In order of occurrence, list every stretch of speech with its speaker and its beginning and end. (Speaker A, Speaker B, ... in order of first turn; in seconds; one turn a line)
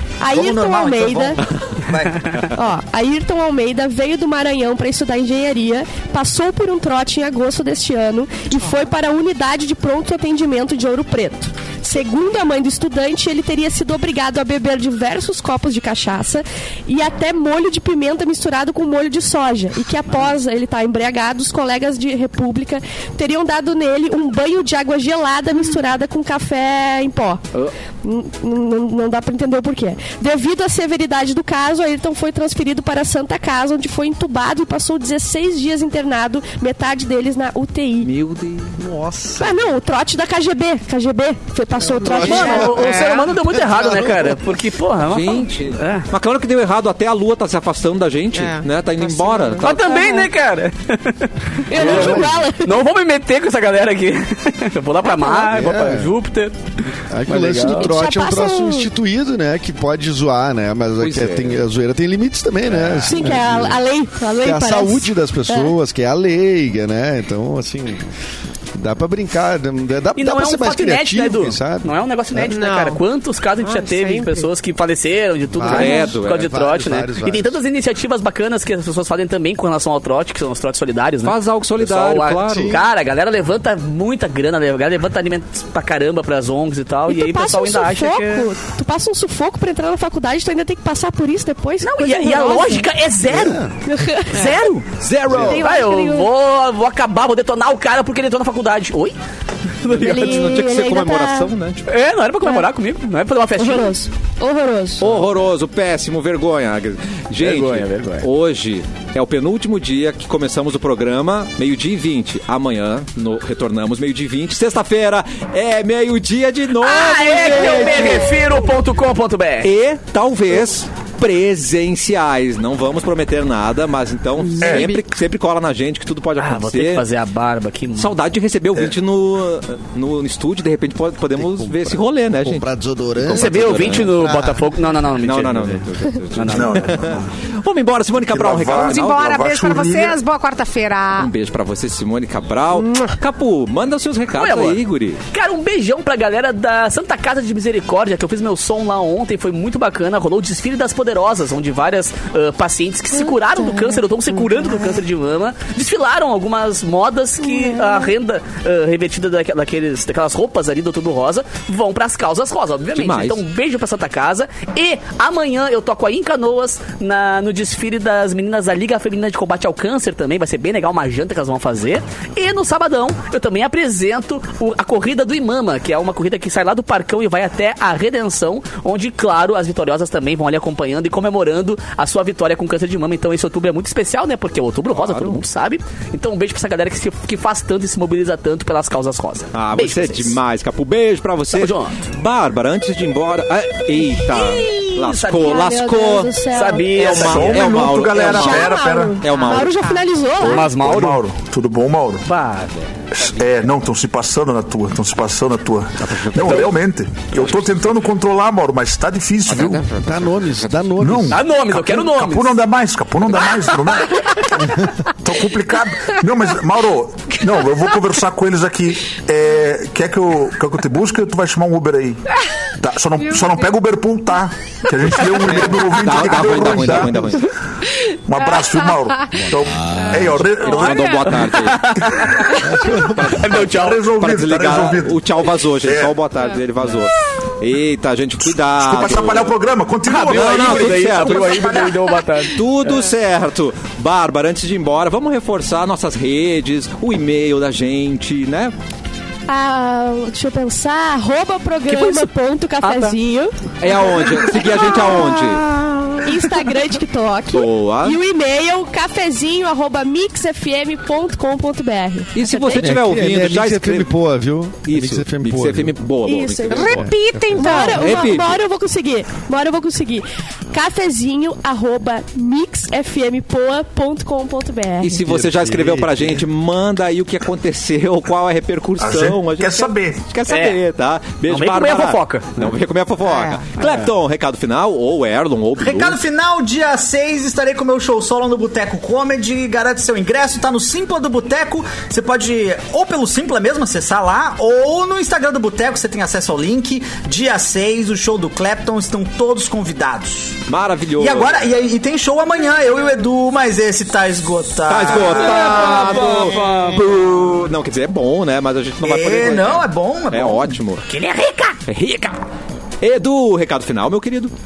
Speaker A: 0.2-1.4
Speaker B: 0.3-2.4
Speaker C: 1.5-1.7
Speaker A: 2.5-27.4
Speaker A: 28.0-38.1
Speaker C: 38.0-38.8
Speaker D: 38.8-39.6
Speaker A: 39.4-43.0
Speaker D: 41.9-44.4
Speaker E: 42.2-46.1
Speaker F: 42.7-43.2
Speaker C: 45.0-49.9
Speaker F: 48.3-49.6
Speaker E: 49.6-56.6
Speaker A: 49.8-50.3
Speaker A: 51.7-52.7
Speaker D: 51.7-52.4
Speaker A: 55.0-55.5
Speaker D: 55.5-56.1
Speaker D: 57.1-63.8
Speaker E: 57.3-58.0
Speaker A: 57.7-58.9
Speaker C: 61.0-61.6
Speaker A: 63.0-65.7
Speaker D: 64.4-68.1
Speaker D: 68.7-72.6
Speaker E: 70.2-88.5
Speaker F: 72.5-73.0
Speaker F: 73.6-74.5
Speaker D: 75.5-77.6
Speaker C: 75.7-76.4
Speaker C: 81.2-82.8
Speaker D: 82.5-82.8
Speaker A: 87.1-92.9
Speaker E: 91.8-93.6
Speaker D: 93.3-93.7
Speaker A: 93.8-94.7
Speaker E: 94.3-99.2
Speaker C: 95.0-95.5
Speaker D: 95.3-95.6
Speaker A: 95.4-96.3
Speaker E: 99.8-100.5
Speaker C: 99.8-101.9
Speaker A: 100.0-101.5
Speaker E: 101.9-104.0
Speaker A: 102.4-102.7
Speaker A: 103.6-105.2
Speaker C: 105.0-118.4
Speaker E: 107.4-108.3
Speaker E: 116.8-119.7
Speaker C: 119.6-127.0
Speaker G: 124.6-125.0
Speaker E: 126.4-128.1
Speaker C: 128.0-132.7
Speaker D: 131.4-135.0
Speaker C: 133.2-134.1
Speaker E: 133.2-135.7
Speaker C: 135.2-139.1
Speaker E: 136.3-137.3
Speaker G: 136.5-137.2
Speaker G: 138.2-140.2
Speaker F: 138.8-141.3
Speaker C: 141.1-145.2
Speaker F: 142.7-143.1
Speaker E: 144.3-190.4
Speaker A: 153.6-153.9
Speaker A: 157.5-158.1
Speaker C: 162.9-163.4
Speaker C: 184.9-185.4
Speaker C: 189.5-196.3
Speaker E: 191.5-191.9
Speaker E: 194.2-195.7
Speaker A: 195.4-197.1
Speaker E: 196.5-198.3
Speaker C: 196.9-200.5
Speaker G: 197.1-199.2
Speaker A: 198.2-200.7
Speaker E: 200.4-201.2
Speaker G: 200.7-202.2
Speaker E: 202.2-203.3
Speaker G: 203.2-209.9
Speaker C: 206.1-206.6
Speaker C: 209.5-210.1
Speaker D: 209.9-211.4
Speaker G: 211.0-214.3
Speaker E: 211.3-212.6
Speaker G: 215.2-222.2
Speaker G: 222.8-227.4
Speaker C: 225.8-227.5
Speaker D: 226.8-227.3
Speaker G: 228.2-231.4
Speaker F: 229.9-230.3
Speaker C: 230.2-232.0
Speaker E: 231.2-232.7
Speaker G: 232.2-232.6
Speaker D: 232.6-233.5
Speaker C: 233.2-233.7
Speaker E: 233.2-234.0
Speaker G: 233.6-235.3
Speaker C: 234.2-239.5
Speaker G: 235.8-236.2
Speaker G: 238.4-242.0
Speaker E: 240.1-242.9
Speaker C: 240.1-248.7
Speaker A: 249.5-255.6
Speaker E: 251.9-252.3
Speaker E: 252.8-253.2
Speaker C: 253.8-255.7
Speaker A: 256.2-262.9
Speaker C: 257.5-258.2
Speaker C: 262.3-264.1
Speaker D: 262.8-266.0
Speaker C: 264.8-267.0
Speaker A: 266.2-266.9
Speaker F: 266.7-268.4
Speaker D: 266.9-267.6
Speaker A: 267.6-275.2
Speaker C: 267.6-268.6
Speaker C: 275.0-286.2
Speaker D: 275.2-276.4
Speaker G: 279.0-280.2
Speaker E: 280.5-280.8
Speaker E: 281.5-282.7
Speaker F: 283.2-283.6
Speaker B: 285.8-300.6
Speaker C: 300.7-301.6
Speaker B: 301.1-306.4
Speaker C: 304.9-311.0
Speaker E: 305.2-307.1
Speaker B: 309.0-310.8
Speaker E: 311.1-311.8
Speaker C: 311.9-312.4
Speaker C: 313.0-314.5